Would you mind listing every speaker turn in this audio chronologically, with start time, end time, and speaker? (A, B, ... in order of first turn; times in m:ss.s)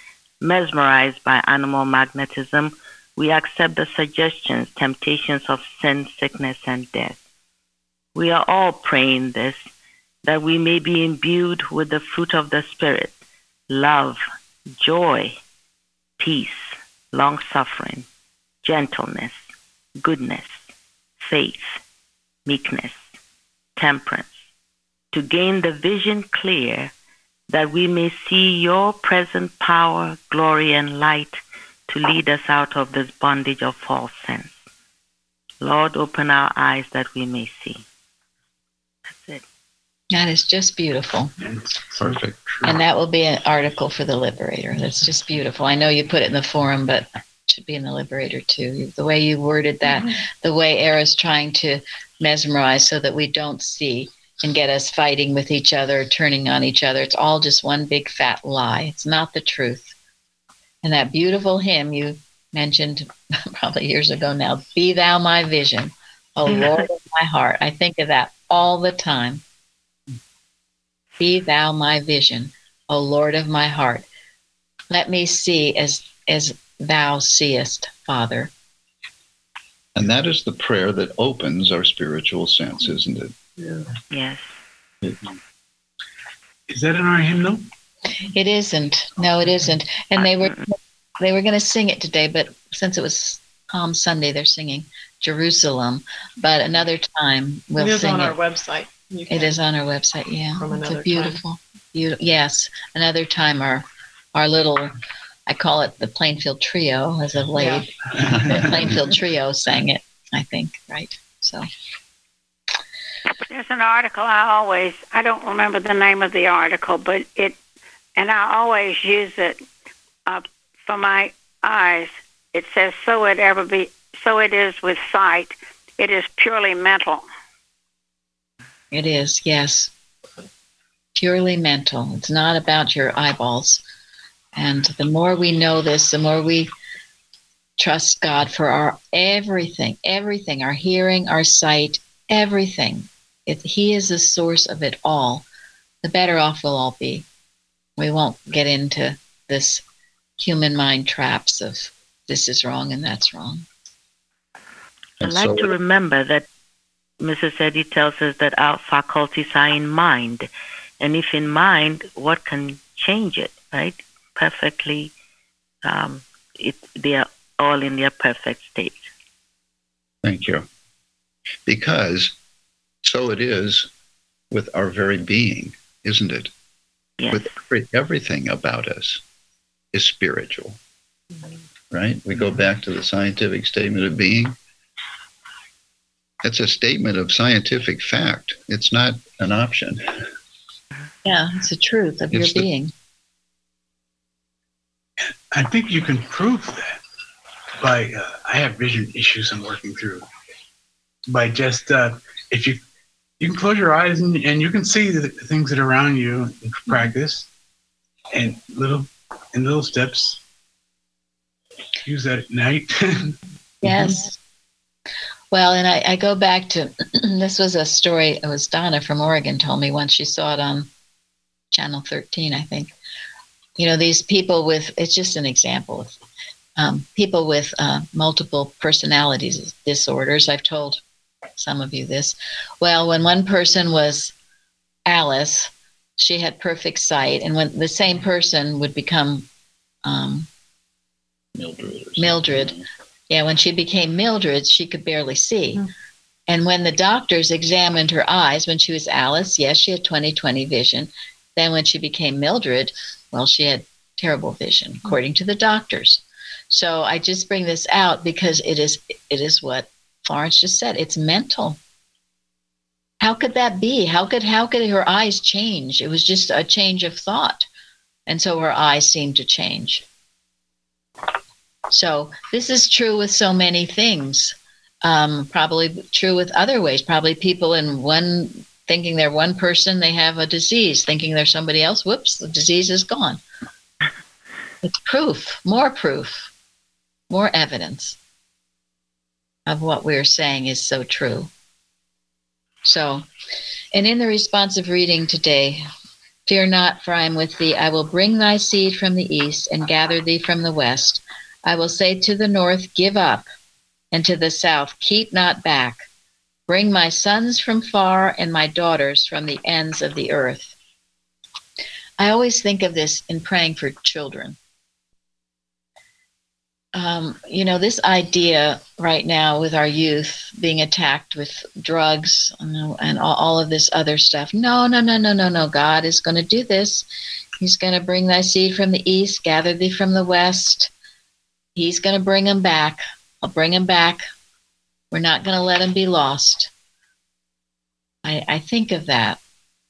0:00.4-0:07.2 A
0:08.2-0:09.6 A
0:10.2-0:13.1 A
0:13.7-0:14.2 A
0:14.8-0:15.4 A
0:16.2-0:18.1 A
0:18.6-0:19.4 A
0:20.0-0:20.6 A
0:21.2-0:21.8 A
0:22.5-0:23.0 A
0:23.8-0:24.3 A
0:25.1-0:26.9 A
0:27.5-0:34.6 A
0:35.6-0:37.8 A
0:39.1-0:39.4 A
0:40.1-0:41.3 B
0:41.4-0:42.8 C
0:42.0-0:42.4 D
0:42.6-0:59.9 B
1:00.8-1:09.4 B
1:11.2-1:14.1 B
1:14.9-1:18.5 B
1:20.0-1:23.4 D
1:24.1-1:24.5 A
1:26.7-1:27.7 C
1:28.3-1:38.4 B
1:37.8-1:39.6 E
1:39.3-1:44.9 B
1:40.6-1:41.4 E
1:45.5-1:51.7 B
1:53.5-1:57.6 F
1:58.2-1:59.6 F
2:00.3-2:07.2 F
2:08.9-2:09.9 B
2:11.2-2:13.8 B
2:14.6-2:16.7 B
2:17.8-2:25.4 B
2:26.0-2:27.3 B
2:28.0-2:29.8 B
2:30.4-2:33.7 B
2:35.2-2:35.7 D
2:35.2-2:36.5 A
2:37.2-2:40.5 A
2:41.0-2:45.1 A
2:45.8-2:49.1 A
2:50.2-2:50.7 D
2:51.7-2:52.4 D
2:53.0-2:53.9 D
2:54.5-2:56.5 D
2:57.2-2:57.4 A
2:57.3-2:59.2 D
2:59.9-3:00.8 D
3:01.9-3:04.6 D
3:06.4-3:10.3 D
3:11.2-3:12.9 B
3:12.3-3:12.7 D
3:15.5-3:17.0 C
3:17.8-3:20.3 C
3:21.3-3:22.8 C
3:23.4-3:27.5 C
3:28.3-3:30.4 C
3:32.1-3:33.4 C
3:33.8-3:34.4 B
3:35.5-3:40.9 B
3:41.7-3:42.9 B
3:43.8-3:46.2 B
3:46.8-3:51.0 B
3:51.6-3:54.3 B
3:55.1-3:59.5 B
4:00.0-4:00.5 B
4:01.6-4:02.8 D
4:02.2-4:02.8 B
4:03.3-4:05.8 B
4:06.5-4:21.8 B
4:23.2-4:27.7 B
4:28.3-4:30.0 B
4:31.9-4:43.4 B
4:44.8-4:46.5 B
4:47.3-4:48.2 B
4:49.7-4:51.5 B
4:52.8-4:53.3 B
4:53.9-4:55.8 B
4:56.5-5:03.4 B
5:04.1-5:06.0 B
5:06.7-5:10.7 B
5:12.2-5:14.6 B
5:16.9-5:27.1 B
5:27.6-5:30.9 B
5:31.8-5:34.2 B
5:35.1-5:36.7 B
5:38.2-5:39.4 B